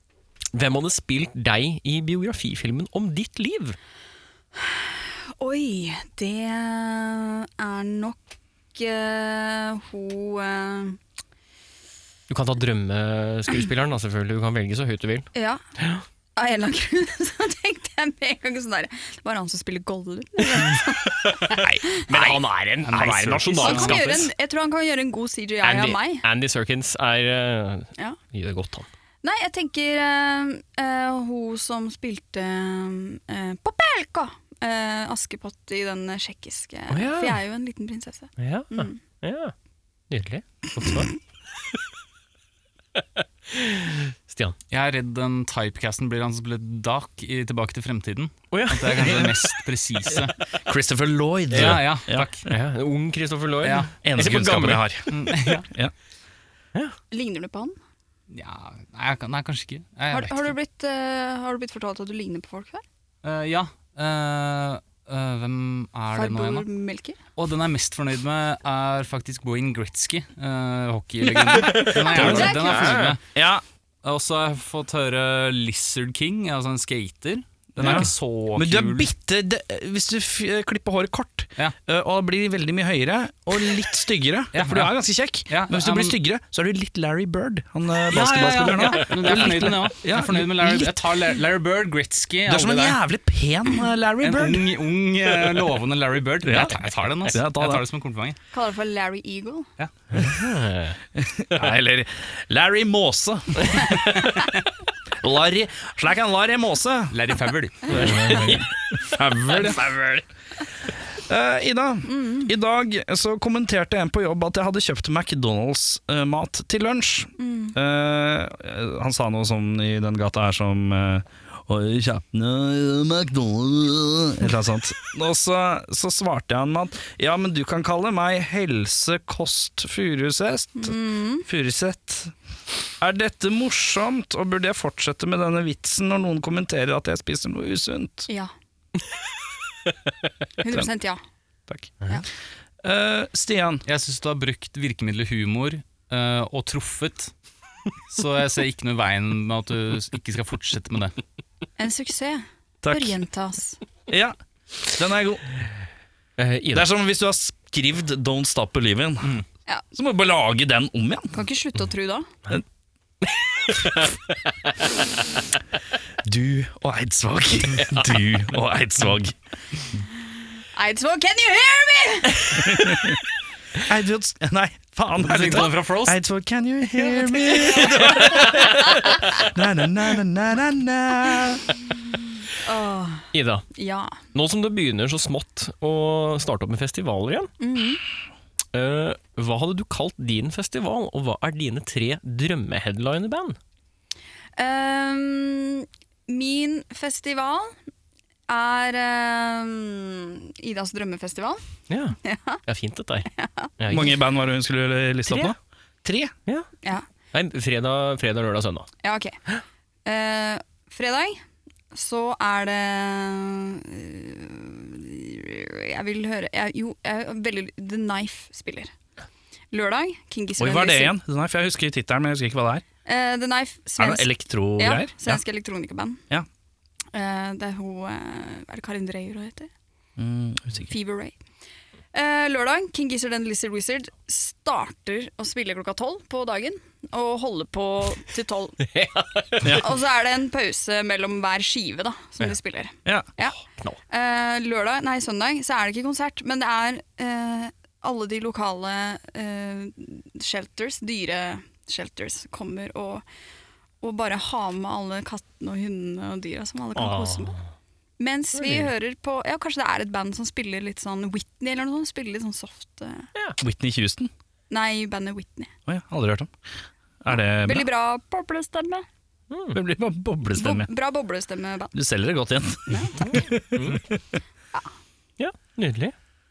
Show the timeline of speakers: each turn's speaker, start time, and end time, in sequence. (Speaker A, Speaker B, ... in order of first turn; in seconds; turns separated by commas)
Speaker A: 0.5-3.8, Speaker B: 4.6-8.2, Speaker B: 8.7-11.0, Speaker A: 12.3-16.0, Speaker B: 15.3-15.6, Speaker B: 16.4-22.4, Speaker A: 21.9-24.3, Speaker C: 22.8-24.2, Speaker B: 23.6-26.2, Speaker A: 25.6-28.9, Speaker B: 29.2-39.0, Speaker A: 36.9-37.4, Speaker A: 38.4-39.5, Speaker A: 40.1-41.1, Speaker A: 43.5-44.5, Speaker C: 44.7-50.3, Speaker A: 48.5-49.5, Speaker D: 50.6-52.3, Speaker C: 51.5-52.4, Speaker A: 51.5-51.9, Speaker A: 52.5-54.9, Speaker C: 53.6-53.9, Speaker D: 54.0-55.9, Speaker C: 55.1-55.7, Speaker B: 57.1-57.8, Speaker C: 58.3-60.5, Speaker B: 60.1-62.8, Speaker C: 63.2-66.7, Speaker B: 66.1-67.2, Speaker C: 67.3-73.2, Speaker D: 71.6-72.5, Speaker A: 71.8-73.2, Speaker B: 71.8-73.0, Speaker D: 73.3-73.6, Speaker C: 74.0-79.1, Speaker D: 77.8-91.1, Speaker C: 84.5-84.9, Speaker C: 85.5-86.2, Speaker C: 88.1-93.0, Speaker D: 92.5-94.7, Speaker C: 94.2-98.4, Speaker D: 96.4-97.8, Speaker B: 98.5-99.7, Speaker A: 100.1-101.0, Speaker D: 101.2-104.2, Speaker D: 105.2-107.2, Speaker C: 107.1-108.4, Speaker A: 107.9-108.7, Speaker D: 107.9-110.2, Speaker A: 109.6-110.0, Speaker D: 111.2-132.3, Speaker B: 112.0-112.5, Speaker B: 117.4-117.8, Speaker B: 130.8-131.4, Speaker D: 133.0-138.3, Speaker B: 140.6-141.2, Speaker D: 141.7-142.0, Speaker D: 142.8-143.8, Speaker C: 143.8-147.3, Speaker C: 148.1-151.1, Speaker B: 151.8-153.8, Speaker D: 152.8-153.2, Speaker D: 154.1-155.6, Speaker A: 156.4-156.9, Speaker D: 156.7-159.3, Speaker D: 159.9-161.4, Speaker B: 161.3-162.3, Speaker A: 163.7-164.2, Speaker D: 166.2-169.3, Speaker B: 170.7-173.0, Speaker D: 172.4-173.2, Speaker D: 173.8-181.6, Speaker C: 175.2-176.2, Speaker B: 177.3-177.9, Speaker B: 182.6-184.2, Speaker A: 183.3-183.7, Speaker A: 184.3-187.5, Speaker B: 187.6-188.0, Speaker A: 188.7-193.6, Speaker B: 194.6-197.8, Speaker B: 198.5-201.6, Speaker A: 201.9-204.2, Speaker B: 202.2-202.6, Speaker B: 203.3-203.7, Speaker D: 203.9-206.3, Speaker A: 207.3-208.9, Speaker B: 209.0-209.4, Speaker B: 210.0-211.4, Speaker B: 211.9-218.9, Speaker B: 219.7-221.1, Speaker D: 220.6-222.8, Speaker B: 223.0-226.2, Speaker D: 224.0-225.4, Speaker B: 227.1-229.7, Speaker D: 230.2-230.9, Speaker B: 230.9-231.4, Speaker B: 232.1-238.9, Speaker A: 238.8-239.7, Speaker D: 239.6-239.9, Speaker B: 239.7-243.6, Speaker B: 244.1-253.2, Speaker B: 254.0-257.6, Speaker A: 256.9-257.6, Speaker B: 258.2-263.3, Speaker A: 258.5-258.9, Speaker D: 263.6-264.3, Speaker B: 264.7-265.7, Speaker D: 265.9-266.5, Speaker D: 267.2-267.9, Speaker B: 267.6-269.0, Speaker A: 269.5-269.8, Speaker D: 269.7-270.9, Speaker B: 270.5-271.9, Speaker D: 271.9-274.0, Speaker B: 272.9-273.4, Speaker A: 273.2-274.0, Speaker A: 275.4-276.1